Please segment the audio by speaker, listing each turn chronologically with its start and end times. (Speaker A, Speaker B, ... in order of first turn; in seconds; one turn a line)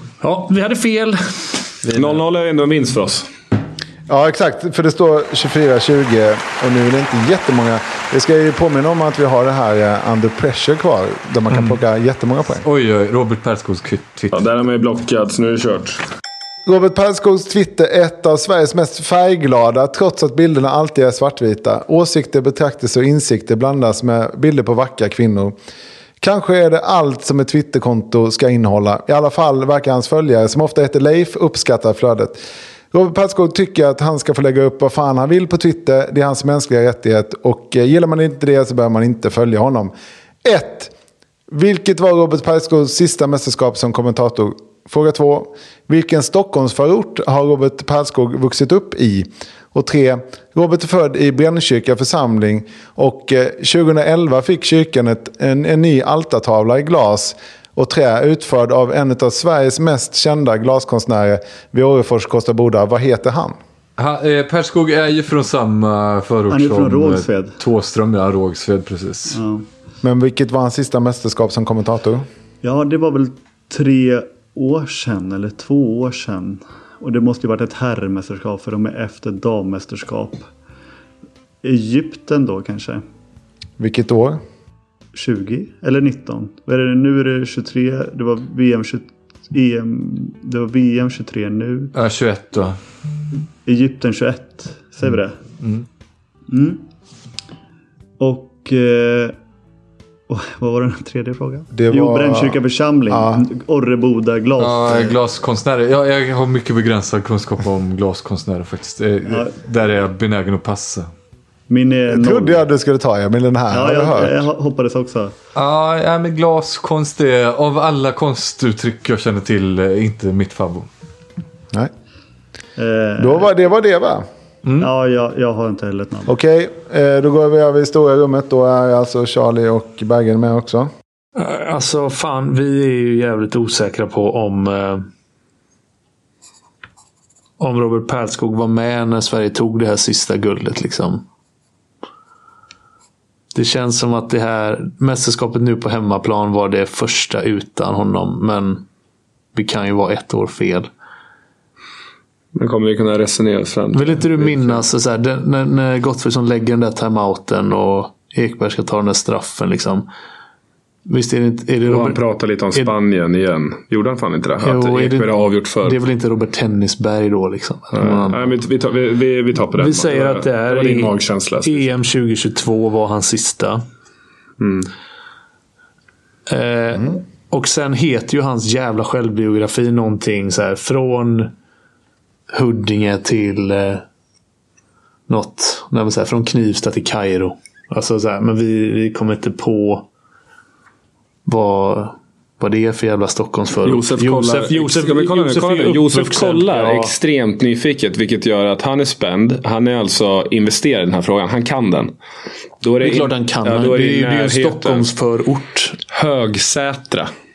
Speaker A: 0.2-1.2
Speaker B: 1.8-2.1
Speaker C: 1.9-3.3
Speaker D: 4.1-12.6
Speaker B: 11.5-11.8
Speaker B: 12.6-14.3
Speaker C: 14.3-16.0
Speaker D: 16.6-25.6
Speaker D: 26.2-39.9
Speaker D: 40.4-40.9
Speaker D: 41.5-63.6
Speaker B: 64.0-69.4
Speaker E: 66.5-67.5
Speaker E: 69.3-69.7
Speaker D: 70.0-72.2
Speaker E: 72.6-80.5
Speaker E: 81.6-83.0
Speaker D: 83.8-84.4
Speaker E: 85.1-91.9
Speaker B: 91.9-92.8
Speaker E: 93.7-95.3
Speaker E: 96.5-96.8
Speaker E: 98.2-99.3
Speaker E: 100.3-105.2
Speaker D: 101.7-103.4
Speaker B: 104.6-111.1
Speaker E: 109.3-109.5
Speaker E: 111.7-112.6
Speaker D: 112.1-114.5
Speaker E: 113.7-115.3
Speaker B: 115.5-120.9
Speaker E: 122.8-123.5
Speaker D: 123.2-124.2
Speaker B: 124.6-124.9
Speaker E: 124.8-126.3
Speaker D: 126.3-130.9
Speaker A: 131.3-135.1
Speaker A: 137.6-141.2
Speaker A: 143.5-148.8
Speaker A: 149.5-150.9
Speaker C: 152.5-154.8
Speaker A: 153.9-160.1
Speaker A: 161.1-162.2
Speaker C: 161.8-166.0
Speaker A: 164.6-165.3
Speaker A: 165.8-168.5
Speaker C: 167.9-171.9
Speaker A: 169.8-173.8
Speaker C: 174.6-174.9
Speaker A: 176.5-181.5
Speaker A: 182.5-184.0
Speaker A: 185.3-190.1
Speaker A: 191.4-197.1
Speaker C: 193.8-202.1
Speaker C: 202.8-205.1
Speaker A: 203.0-206.0
Speaker C: 206.1-207.3